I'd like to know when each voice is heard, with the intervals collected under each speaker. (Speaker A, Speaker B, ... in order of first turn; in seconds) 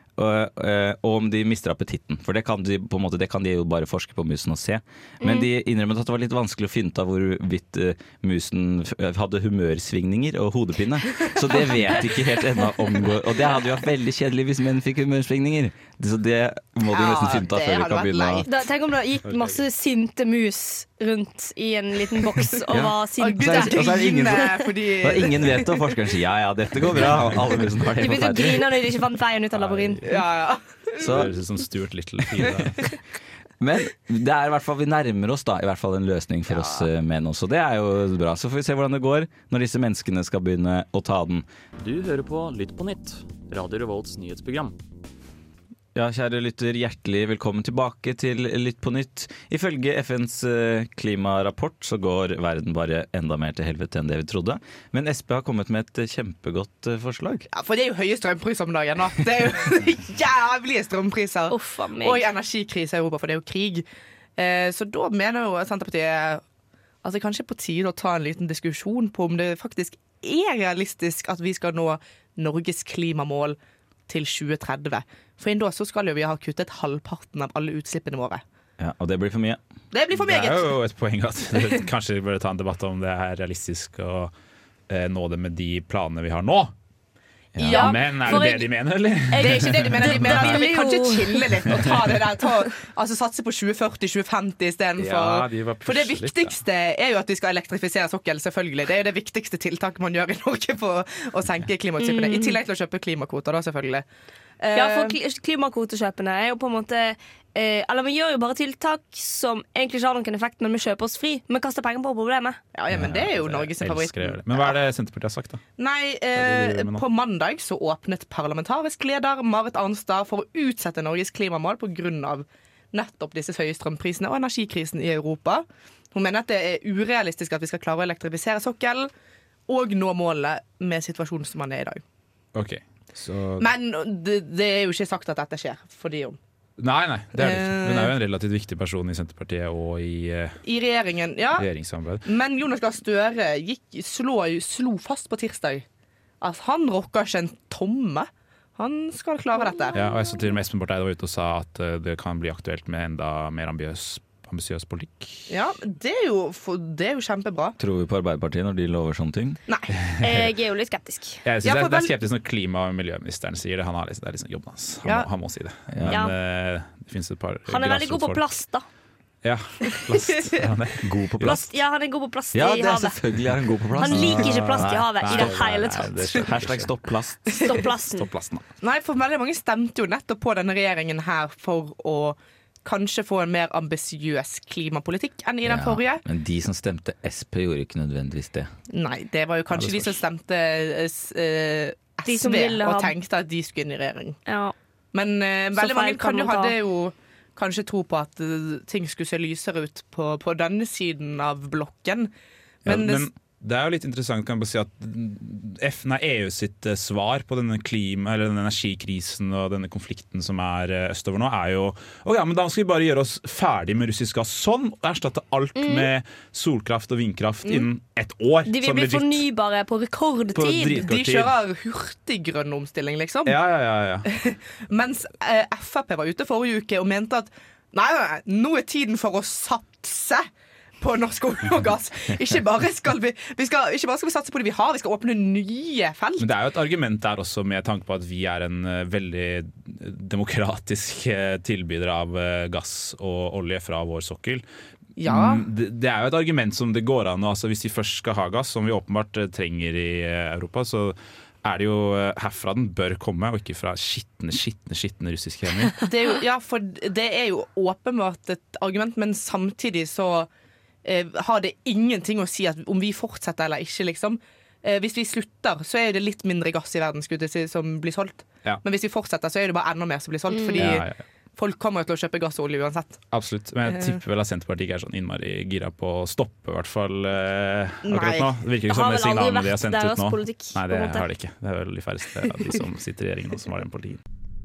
Speaker A: 0.2-18.4, 22.7-28.8, 31.0-31.4, 33.6-41.5, 46.0-57.5, 78.8-79.6, 87.6-87.9, 112.9-113.3, 157.8-159.6, 165.9-166.2, 171.0-171.7, 172.5-175.6, 176.4-177.7, 185.6-188.7
Speaker B: 5.2-5.5, 18.5-24.5, 28.0-30.0, 61.5-62.2, 87.7-88.7, 89.3-91.7, 102.0-102.6, 104.8-112.6, 160.2-161.4, 166.1-166.3, 167.7-168.8, 171.4-173.2, 173.9-176.4, 177.6-178.3, 192.3-193.1, 194.5-194.8, 195.8-196.8, 215.8-216.1, 218.7-221.0, 270.5-270.9, 278.9-281.3
Speaker C: 16.9-18.6, 23.2-25.9, 30.0-31.3, 57.5-63.9, 64.4-66.4, 67.0-78.4, 79.9-80.7, 87.7-88.5, 89.3-104.1, 104.6-105.2, 112.7-114.8, 115.8-129.1, 129.7-132.0, 133.6-136.4, 137.4-138.1, 140.7-141.7, 142.2-145.8, 146.4-150.0, 155.5-157.8, 159.7-159.9, 161.6-162.2, 170.3-170.6, 178.8-186.2, 188.9-194.4, 195.1-202.3, 202.8-203.3, 220.8-223.6, 224.3-230.5, 231.0-236.5, 245.2-245.6, 256.0-260.5, 261.0-271.1, 271.6-273.2, 278.1-278.5
Speaker D: 19.3-19.6, 29.5-30.2, 31.0-32.9, 80.2-84.3, 84.9-86.7, 87.6-90.6, 95.0-96.6, 112.9-115.6, 116.3-117.0, 132.6-133.7, 136.8-140.6, 141.6-142.3, 149.9-155.5, 161.4-168.4, 169.4-171.6, 174.1-176.9, 178.2-178.7, 189.7-190.2, 202.8-219.4, 220.6-221.5, 223.5-224.3, 236.4-244.6, 245.3-256.0, 270.8-271.2, 273.3-284.2
Speaker E: 41.8-44.8